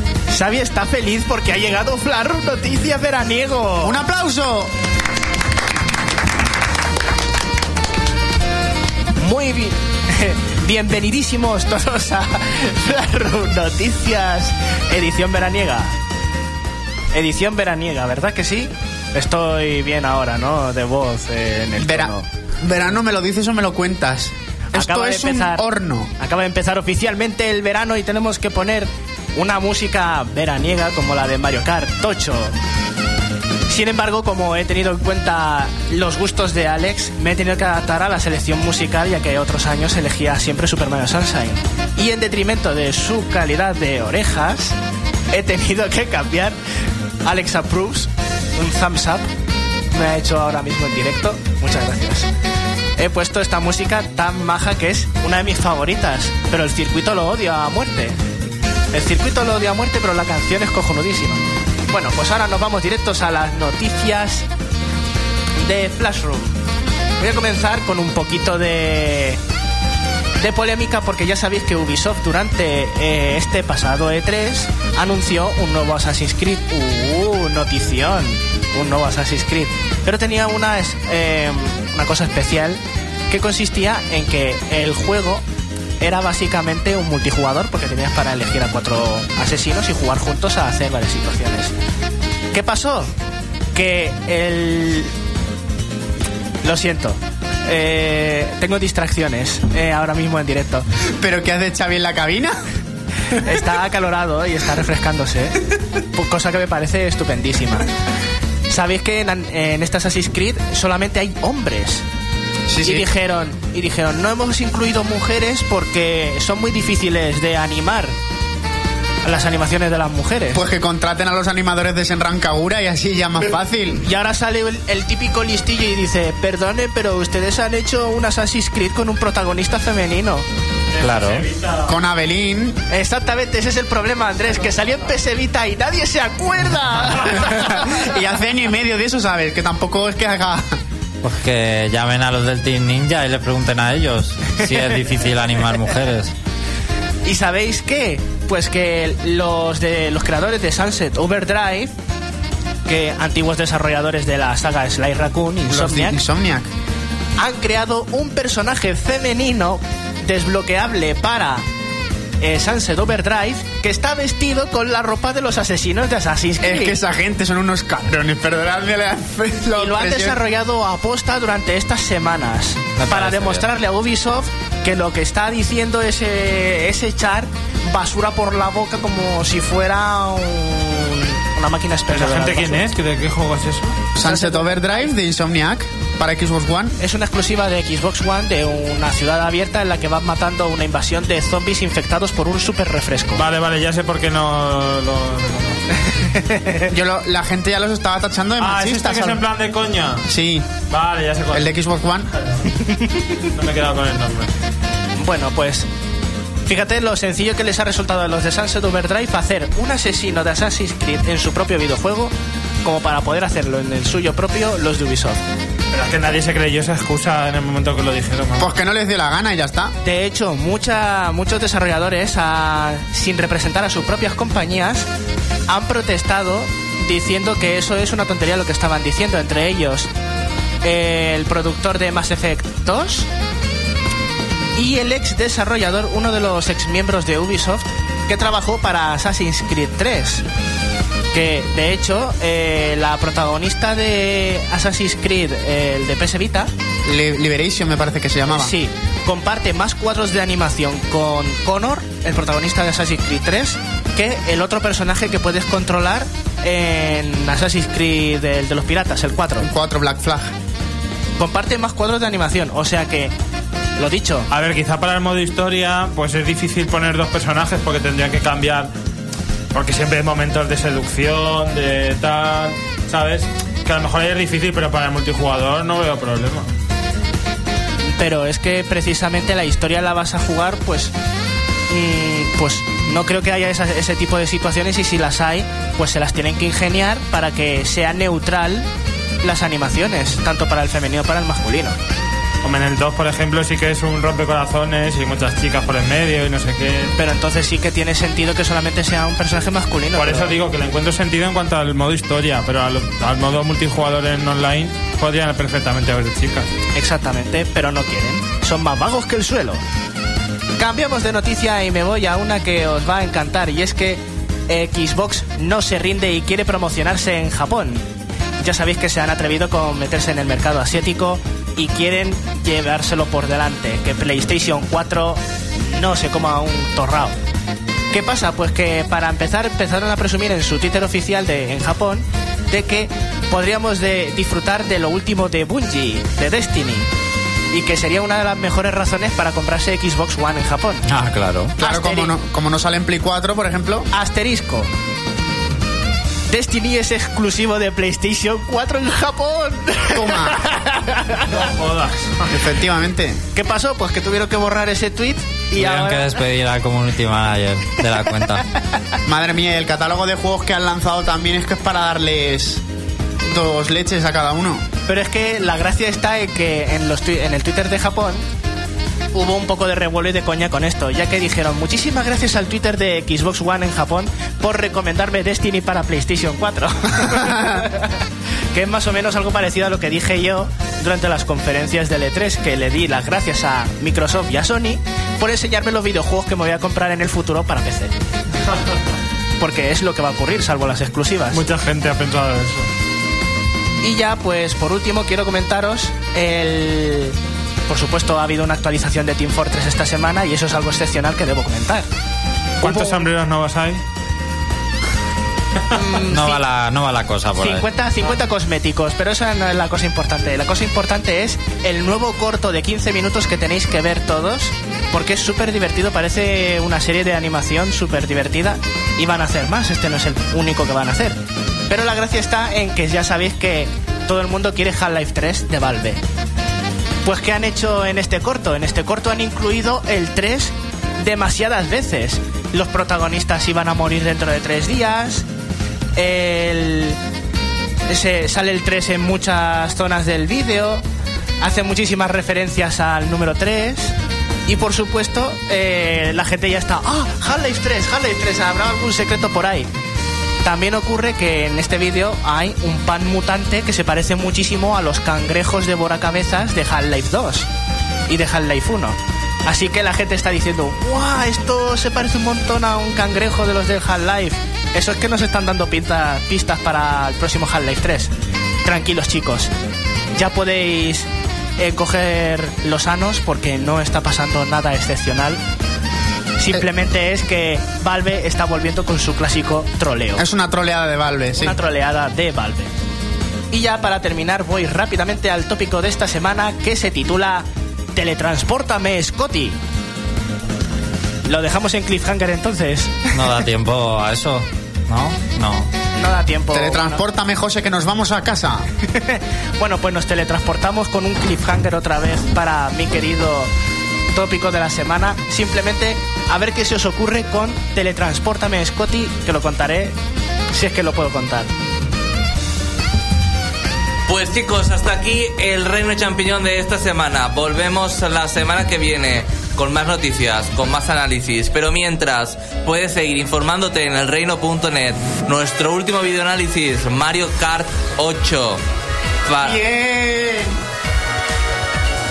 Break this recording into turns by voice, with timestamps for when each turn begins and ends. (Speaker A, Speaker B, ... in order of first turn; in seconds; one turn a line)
Speaker A: 0.3-4.0
Speaker B: 3.8-4.7
Speaker A: 9.2-15.9
Speaker A: 17.1-22.3
Speaker B: 21.8-26.1
Speaker A: 24.8-25.6
Speaker A: 26.2-32.6
Speaker A: 33.7-44.8
Speaker A: 45.3-46.6
Speaker A: 47.2-49.3
Speaker A: 49.9-52.3
Speaker A: 53.0-58.2
Speaker A: 58.9-64.5
Speaker A: 65.6-66.6
Speaker A: 67.2-69.4
Speaker A: 70.4-85.4
Speaker A: 86.0-91.7
Speaker A: 92.5-93.1
Speaker A: 93.7-95.1
Speaker A: 96.6-100.9
Speaker B: 101.2-102.5
Speaker A: 103.3-105.6
Speaker A: 106.1-107.9
Speaker A: 108.7-112.0
Speaker B: 112.7-113.1
Speaker A: 112.8-118.2
Speaker A: 119.2-120.6
Speaker B: 120.5-124.0
Speaker A: 124.0-130.5
Speaker C: 130.9-132.0
Speaker D: 131.0-131.5
Speaker B: 131.9-132.8
Speaker A: 132.9-138.1
Speaker B: 137.4-140.8
Speaker D: 141.2-146.3
Speaker A: 144.6-145.0
Speaker A: 147.2-151.9
Speaker A: 152.9-156.2
Speaker B: 155.7-156.7
Speaker A: 157.4-161.7
Speaker A: 162.4-167.0
Speaker B: 166.6-170.4
Speaker A: 169.8-182.9
Speaker D: 173.0-173.6
Speaker C: 182.1-184.0
Speaker B: 184.2-187.0
Speaker A: 184.2-185.1
Speaker A: 187.0-193.4
Speaker C: 193.4-196.0
Speaker A: 196.1-196.9
Speaker B: 196.9-199.4
Speaker C: 198.6-200.3
Speaker B: 200.3-200.7
Speaker C: 200.9-201.7
Speaker B: 201.5-202.3
Speaker A: 202.7-203.4
Speaker C: 203.5-204.5
Speaker A: 205.2-205.9
Speaker A: 206.7-215.4
Speaker C: 215.9-218.7
Speaker B: 218.6-219.9
Speaker A: 220.0-225.1
Speaker A: 225.7-230.1
Speaker A: 230.8-233.3
Speaker A: 234.8-240.4
Speaker A: 241.3-246.7
Speaker B: 247.1-248.8
Speaker A: 248.5-259.7
Speaker B: 259.6-260.5
Speaker A: 261.4-263.3
Speaker A: 264.0-264.5
Speaker C: 264.5-268.9
Speaker C: 269.7-276.7
Speaker A: 278.1-281.1
Speaker A: 281.9-288.9
Speaker A: 289.4-292.0
Speaker C: 292.6-297.1
Speaker A: 297.2-300.6
Speaker C: 300.1-306.7
Speaker A: 306.9-309.8
Speaker A: 310.8-318.1
Speaker A: 318.6-327.4
Speaker A: 328.1-337.1
Speaker A: 337.7-341.1
Speaker D: 341.1-341.8
Speaker B: 341.8-344.1
Speaker A: 341.8-342.3
Speaker A: 344.1-344.9
Speaker A: 346.5-351.7
Speaker B: 350.1-350.6
Speaker C: 351.5-352.5
Speaker B: 352.5-353.4
Speaker A: 353.5-356.4
Speaker D: 355.7-358.7
Speaker B: 359.2-362.8
Speaker B: 363.4-364.9
Speaker A: 365.1-368.4
Speaker A: 369.3-378.2
Speaker A: 378.7-388.1
Speaker A: 389.6-391.7
Speaker C: 391.5-392.9
Speaker A: 394.0-397.4
Speaker A: 397.9-402.1
Speaker A: 402.8-403.2
Speaker C: 402.8-404.0
Speaker A: 405.9-406.6
Speaker D: 406.2-407.9
Speaker A: 407.6-426.2
Speaker A: 427.2-435.5
Speaker A: 436.2-437.2
Speaker A: 438.1-441.0
Speaker A: 441.6-444.1
Speaker A: 444.7-449.9
Speaker A: 450.6-457.7
Speaker A: 458.3-468.3
Speaker A: 468.8-469.7
Speaker A: 470.3-475.6
Speaker A: 476.6-480.4
Speaker B: 480.4-481.8
Speaker A: 481.6-482.9
Speaker A: 483.7-489.8
Speaker A: 491.4-493.4
Speaker D: 493.3-495.9
Speaker A: 496.2-497.2
Speaker B: 496.7-498.9
Speaker A: 499.0-503.7
Speaker A: 504.3-510.1
Speaker A: 510.7-511.7
Speaker E: 514.3-528.8
Speaker E: 529.5-529.8
Speaker B: 529.6-530.7